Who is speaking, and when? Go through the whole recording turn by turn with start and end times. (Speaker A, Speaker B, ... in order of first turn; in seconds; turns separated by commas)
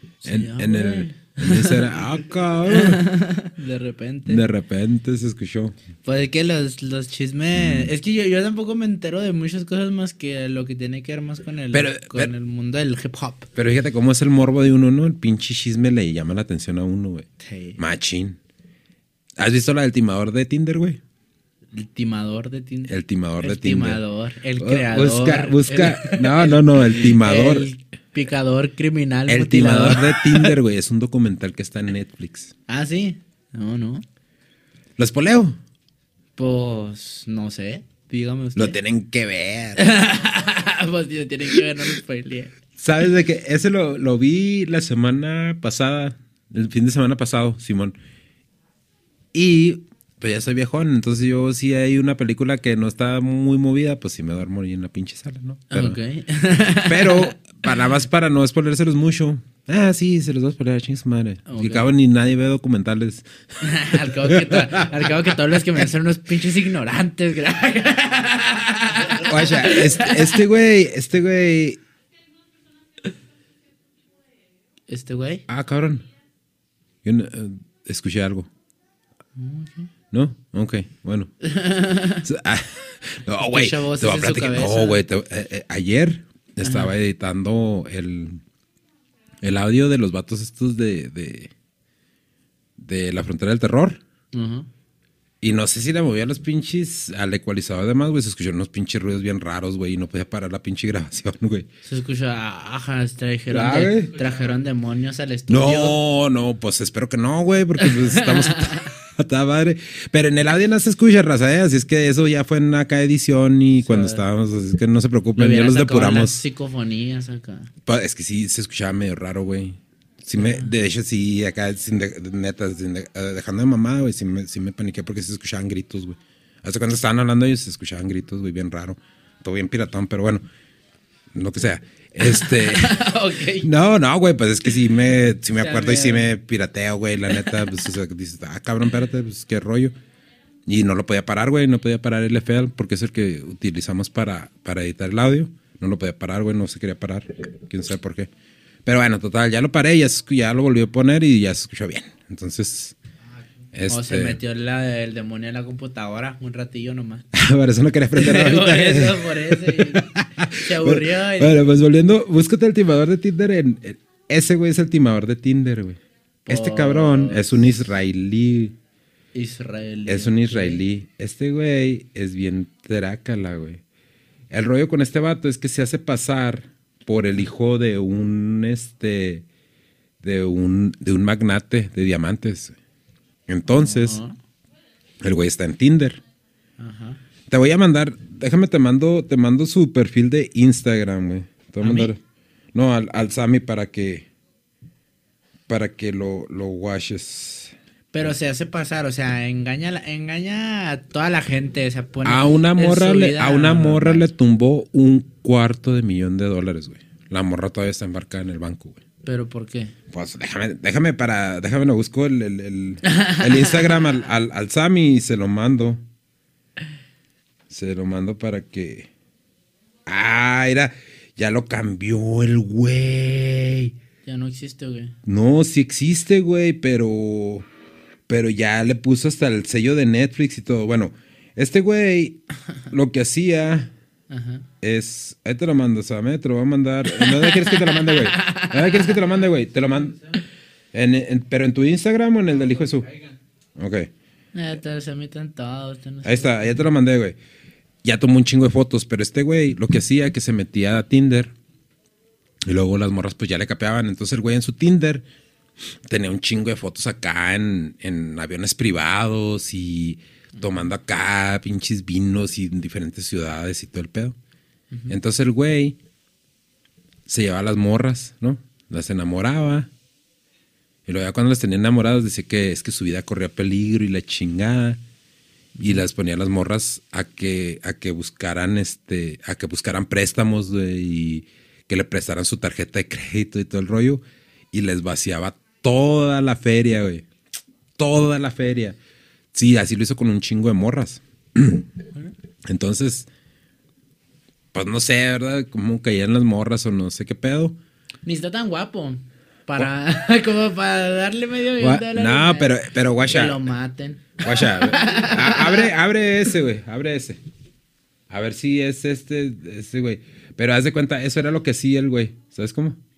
Speaker A: 0.2-3.0, Speaker B: 0.2-1.9, Speaker B: 2.7-4.4, Speaker A: 4.3-5.8, Speaker B: 6.0-13.5, Speaker A: 7.5-7.9, Speaker A: 11.7-12.3, Speaker A: 13.5-17.3, Speaker B: 17.4-17.8, Speaker A: 17.8-18.4, Speaker A: 19.4-21.0, Speaker B: 21.7-30.5, Speaker A: 22.9-24.0, Speaker A: 24.6-27.6, Speaker A: 29.3-32.5, Speaker B: 32.7-34.0, Speaker A: 35.0-35.6, Speaker B: 36.4-38.8, Speaker A: 38.5-39.8, Speaker B: 39.8-42.5, Speaker A: 42.8-48.0, Speaker A: 49.3-56.0, Speaker B: 55.7-57.6, Speaker A: 56.8-64.9, Speaker B: 61.5-61.9, Speaker B: 63.6-70.4, Speaker A: 69.2-71.8, Speaker B: 74.9-75.4, Speaker A: 75.5-76.0, Speaker A: 77.0-78.5, Speaker B: 79.4-79.9, Speaker A: 80.1-81.3, Speaker B: 81.4-82.2, Speaker A: 82.2-88.4, Speaker B: 83.5-85.0, Speaker B: 86.6-86.9, Speaker A: 89.4-91.5, Speaker A: 92.8-94.0, Speaker B: 94.3-94.7, Speaker A: 95.4-101.7, Speaker B: 101.8-106.0, Speaker A: 103.5-104.1, Speaker A: 105.5-116.4, Speaker B: 107.8-108.9, Speaker B: 113.8-114.2, Speaker B: 115.3-117.7, Speaker A: 117.8-130.4, Speaker B: 120.3-120.7, Speaker A: 131.3-139.9, Speaker B: 132.2-133.7, Speaker B: 135.6-136.3, Speaker B: 137.3-137.7, Speaker A: 140.7-148.3, Speaker A: 148.8-153.0, Speaker A: 153.7-154.4, Speaker B: 153.9-157.3, Speaker A: 157.3-168.8, Speaker B: 158.1-161.6, Speaker B: 166.4-167.6, Speaker B: 169.3-170.8, Speaker A: 170.1-173.8, Speaker A: 174.5-179.4, Speaker A: 180.2-182.8, Speaker A: 183.5-184.2, Speaker B: 183.7-184.3, Speaker A: 185.2-186.2, Speaker B: 186.8-187.2, Speaker A: 187.5-192.2, Speaker B: 191.8-192.1, Speaker A: 192.7-194.3, Speaker A: 195.7-198.3, Speaker B: 198.1-204.2, Speaker A: 202.2-209.0, Speaker B: 209.2-209.9, Speaker A: 210.1-216.0, Speaker B: 213.0-214.0, Speaker A: 217.7-219.1, Speaker A: 220.1-223.9, Speaker B: 224.2-225.2, Speaker A: 225.2-227.7, Speaker A: 228.3-233.9, Speaker B: 234.3-234.7, Speaker A: 234.8-240.2, Speaker B: 237.1-239.2, Speaker A: 240.9-243.1, Speaker A: 243.8-244.1, Speaker B: 244.5-246.8, Speaker A: 246.2-247.4, Speaker A: 248.0-251.5, Speaker A: 252.7-255.2, Speaker A: 256.0-264.4, Speaker A: 265.1-266.0, Speaker A: 267.3-269.9, Speaker A: 271.1-275.0, Speaker B: 275.8-276.0, Speaker A: 275.8-287.2, Speaker A: 288.0-289.0, Speaker A: 289.5-291.9, Speaker A: 292.6-293.3, Speaker A: 294.7-297.8, Speaker B: 298.2-302.7, Speaker A: 301.8-303.6, Speaker B: 303.3-305.9, Speaker A: 304.4-307.4, Speaker A: 308.3-313.0